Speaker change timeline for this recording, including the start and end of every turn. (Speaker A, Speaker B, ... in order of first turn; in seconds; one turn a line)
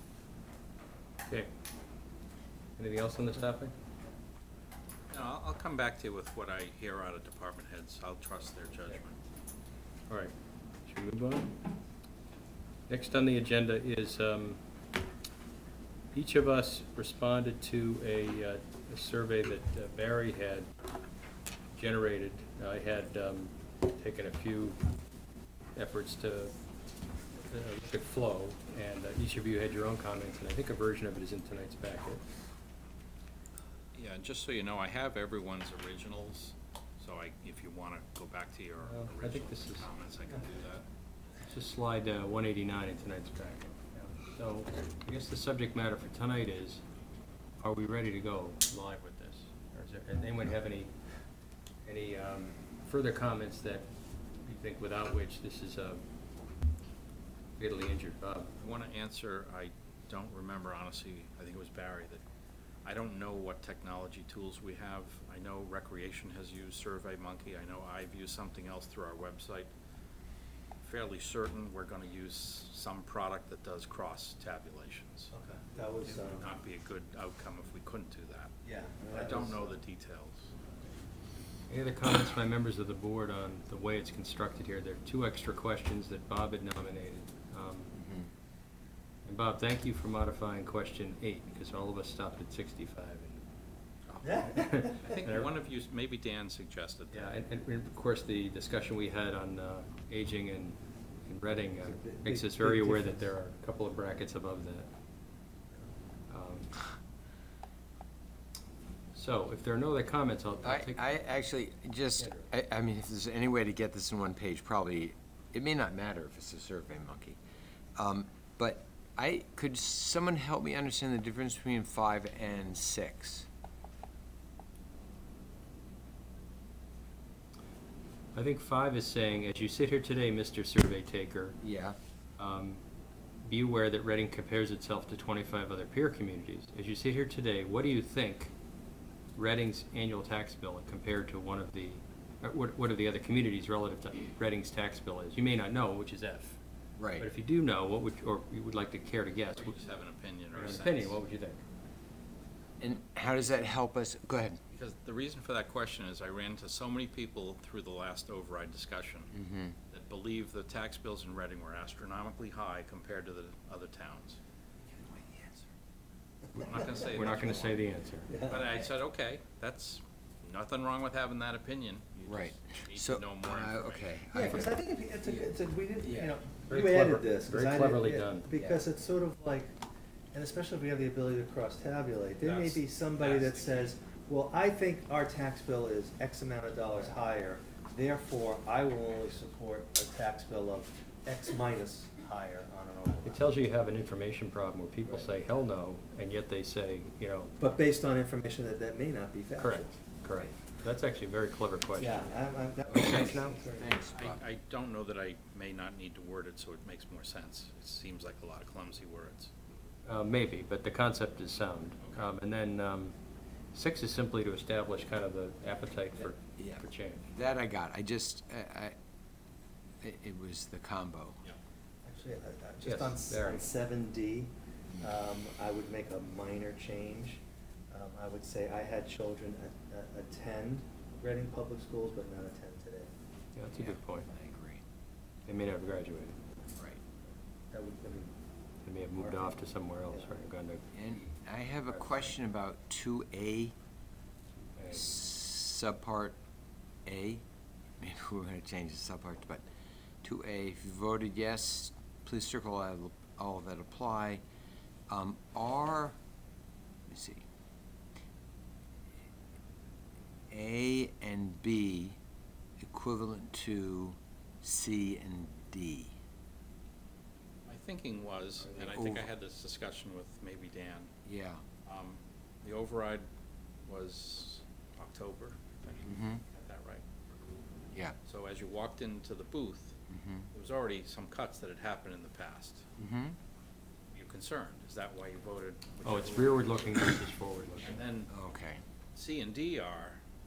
Speaker A: 2.8-3.7
Speaker B: 5.1-9.2
Speaker A: 10.8-11.5
Speaker A: 12.9-14.6
Speaker A: 16.1-20.7
Speaker A: 21.7-24.8
Speaker A: 25.7-26.5
Speaker A: 27.3-32.2
Speaker B: 33.9-40.9
Speaker A: 38.8-39.9
Speaker A: 41.5-46.8
Speaker A: 47.6-50.9
Speaker A: 51.8-53.9
Speaker A: 54.4-56.0
Speaker A: 57.6-58.5
Speaker B: 58.6-62.2
Speaker B: 62.8-69.7
Speaker B: 70.8-75.3
Speaker C: 75.3-76.5
Speaker B: 76.0-80.5
Speaker C: 78.6-79.7
Speaker A: 81.7-87.9
Speaker D: 87.9-88.3
Speaker A: 89.2-93.4
Speaker C: 94.2-94.9
Speaker A: 94.5-95.5
Speaker B: 95.0-97.3
Speaker A: 97.1-104.9
Speaker C: 101.8-103.2
Speaker A: 106.3-106.7
Speaker A: 109.1-111.2
Speaker D: 110.6-117.4
Speaker A: 112.2-112.5
Speaker D: 118.0-123.5
Speaker A: 128.3-131.6
Speaker D: 131.6-132.0
Speaker A: 132.4-132.8
Speaker A: 133.4-138.5
Speaker A: 139.3-146.6
Speaker D: 147.0-147.3
Speaker A: 147.2-149.7
Speaker B: 149.6-151.2
Speaker A: 150.5-151.6
Speaker D: 152.8-154.6
Speaker B: 154.7-159.3
Speaker D: 159.3-159.8
Speaker B: 159.9-164.4
Speaker B: 166.6-167.8
Speaker C: 166.6-167.0
Speaker A: 167.1-168.3
Speaker C: 168.3-168.8
Speaker B: 168.4-174.1
Speaker D: 172.2-175.5
Speaker C: 174.3-179.8
Speaker D: 176.0-176.3
Speaker A: 176.7-178.5
Speaker D: 178.5-178.8
Speaker C: 180.3-193.5
Speaker B: 182.4-183.9
Speaker A: 193.2-197.6
Speaker C: 197.6-200.0
Speaker A: 199.6-202.3
Speaker C: 202.0-203.9
Speaker A: 202.9-203.6
Speaker D: 202.9-204.4
Speaker B: 204.1-209.5
Speaker A: 210.0-213.1
Speaker B: 212.0-212.3
Speaker A: 213.7-217.3
Speaker D: 216.2-218.9
Speaker D: 220.0-221.4
Speaker C: 222.0-233.1
Speaker A: 222.8-223.7
Speaker A: 233.5-234.3
Speaker D: 233.7-234.8
Speaker A: 235.4-236.4
Speaker C: 237.7-238.3
Speaker A: 238.8-240.8
Speaker C: 239.2-239.5
Speaker D: 240.9-243.7
Speaker A: 241.9-242.3
Speaker A: 244.7-245.2
Speaker D: 244.9-246.4
Speaker D: 247.1-247.4
Speaker D: 248.0-249.6
Speaker D: 250.2-254.4
Speaker D: 255.1-256.2
Speaker D: 257.1-257.4
Speaker D: 260.5-262.2
Speaker D: 262.8-266.1
Speaker B: 267.6-271.1
Speaker D: 268.6-269.3
Speaker D: 271.2-271.6
Speaker B: 271.8-273.2
Speaker B: 273.8-277.0
Speaker D: 276.0-276.4
Speaker B: 278.2-280.0
Speaker D: 280.1-280.5
Speaker B: 280.5-282.9
Speaker D: 283.0-283.4
Speaker B: 284.1-287.2
Speaker A: 286.0-288.0
Speaker B: 287.8-288.3
Speaker D: 288.3-288.8
Speaker B: 289.1-290.2